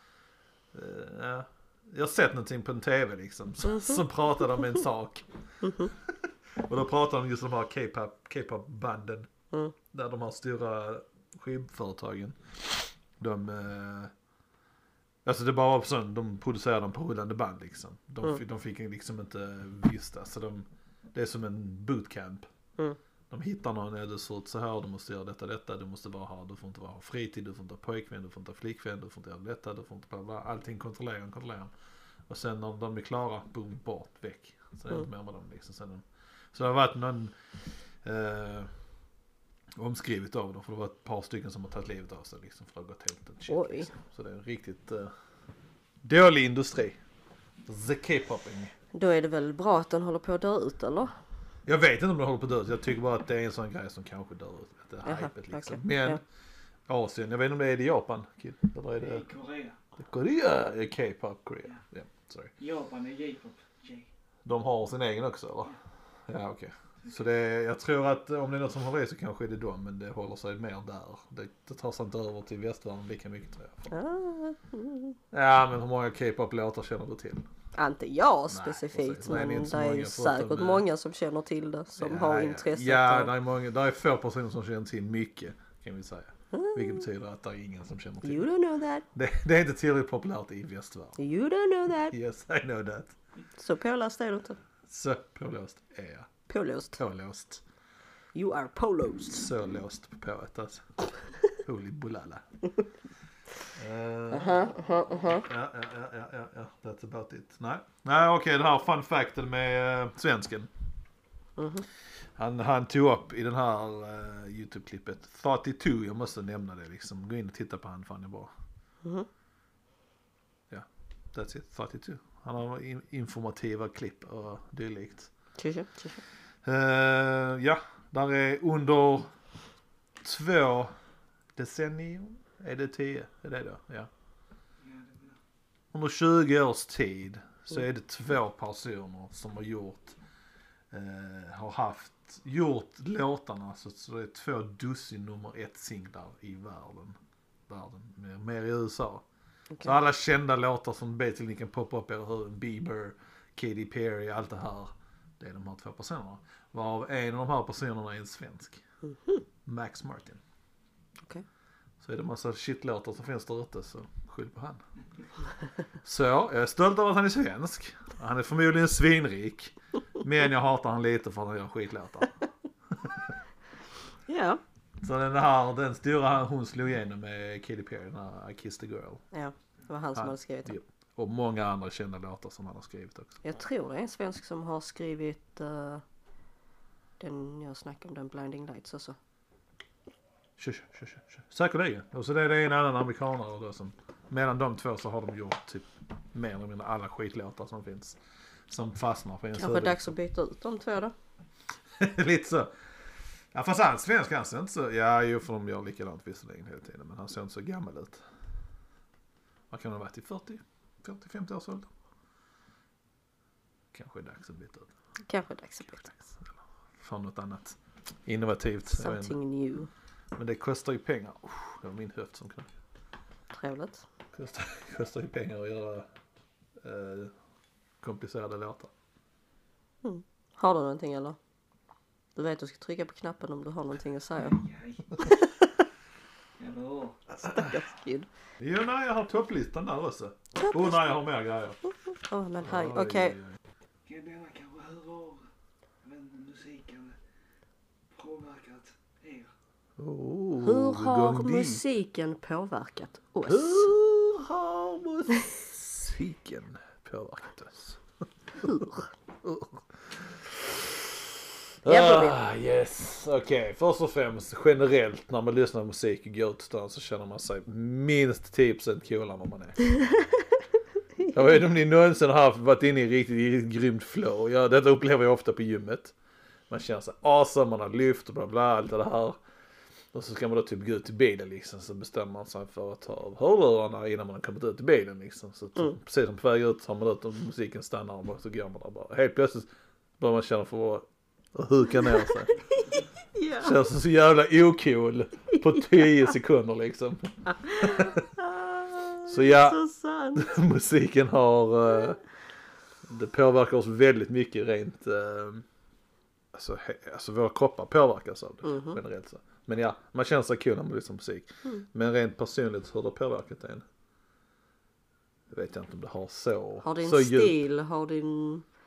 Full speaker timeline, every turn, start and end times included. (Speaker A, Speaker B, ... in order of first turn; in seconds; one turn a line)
Speaker A: 0.7-9.3
Speaker B: 3.6-4.0
Speaker B: 5.6-5.9
Speaker A: 9.9-14.1
Speaker A: 15.2-22.4
Speaker A: 23.3-31.7
Speaker A: 32.3-37.4
Speaker A: 38.0-38.7
Speaker A: 39.7-45.1
Speaker B: 43.5-43.9
Speaker A: 46.0-47.0
Speaker A: 47.6-48.7
Speaker B: 48.9-51.1
Speaker A: 51.6-56.2
Speaker B: 55.0-56.2
Speaker A: 56.9-59.2
Speaker C: 59.0-59.8
Speaker A: 60.0-62.5
Speaker C: 62.6-64.0
Speaker A: 64.4-65.7
Speaker A: 66.3-73.9
Speaker B: 73.9-75.2
Speaker A: 75.3-77.4
Speaker B: 77.7-83.3
Speaker A: 78.5-80.8
Speaker A: 82.0-88.5
Speaker B: 86.5-87.0
Speaker B: 88.2-89.0
Speaker A: 89.1-91.2
Speaker B: 91.2-92.1
Speaker A: 92.1-93.2
Speaker B: 93.6-94.6
Speaker A: 94.9-96.3
Speaker B: 96.5-97.0
Speaker A: 97.0-97.6
Speaker B: 98.3-99.5
Speaker A: 99.3-100.8
Speaker A: 101.5-102.4
Speaker A: 103.7-110.7
Speaker B: 104.3-105.5
Speaker B: 111.6-111.8
Speaker A: 112.4-118.5
Speaker A: 120.7-125.3
Speaker B: 125.6-126.2
Speaker A: 126.6-129.3
Speaker A: 130.2-130.9
Speaker A: 131.6-134.1
Speaker C: 134.8-135.3
Speaker A: 135.9-140.2
Speaker A: 140.9-147.2
Speaker A: 147.7-149.2
Speaker A: 149.8-158.8
Speaker B: 159.0-159.4
Speaker A: 159.7-160.4
Speaker A: 162.0-164.8
Speaker A: 166.0-172.3
Speaker A: 173.0-173.3
Speaker B: 174.2-174.6
Speaker A: 175.0-179.2
Speaker B: 179.3-180.8
Speaker A: 180.1-183.4
Speaker B: 183.4-186.0
Speaker B: 187.2-189.2
Speaker A: 190.6-198.2
Speaker A: 198.7-200.1
Speaker B: 199.6-201.1
Speaker A: 202.0-202.7
Speaker A: 203.5-208.2
Speaker A: 209.7-211.9
Speaker A: 213.9-214.9
Speaker B: 215.3-216.1
Speaker A: 217.0-219.3
Speaker B: 218.9-219.9
Speaker A: 220.3-222.7
Speaker B: 223.5-224.0
Speaker A: 224.3-226.1
Speaker A: 226.8-227.3
Speaker A: 228.0-228.9
Speaker B: 230.0-231.4
Speaker B: 232.3-234.6
Speaker C: 234.4-235.2
Speaker B: 235.2-235.4
Speaker C: 236.6-237.2
Speaker B: 237.4-238.3
Speaker A: 237.4-237.8
Speaker A: 238.6-241.8
Speaker B: 240.5-241.0
Speaker B: 242.1-243.4
Speaker A: 242.6-243.5
Speaker C: 244.1-245.4
Speaker C: 246.0-247.2
Speaker C: 248.1-249.5
Speaker A: 250.0-251.8
Speaker B: 250.6-253.9
Speaker A: 253.4-258.0
Speaker A: 258.6-258.9
Speaker B: 258.6-259.1
Speaker A: 259.4-261.3
Speaker A: 261.8-269.9
Speaker B: 261.8-262.4
Speaker A: 271.3-276.1
Speaker A: 276.7-279.4
Speaker A: 280.1-292.6
Speaker B: 292.8-293.7
Speaker A: 293.6-298.3
Speaker B: 297.5-300.5
Speaker A: 299.3-299.8
Speaker A: 300.3-302.2
Speaker A: 303.1-305.6
Speaker A: 306.5-313.8
Speaker B: 308.6-309.0
Speaker A: 315.5-317.6
Speaker B: 316.8-318.6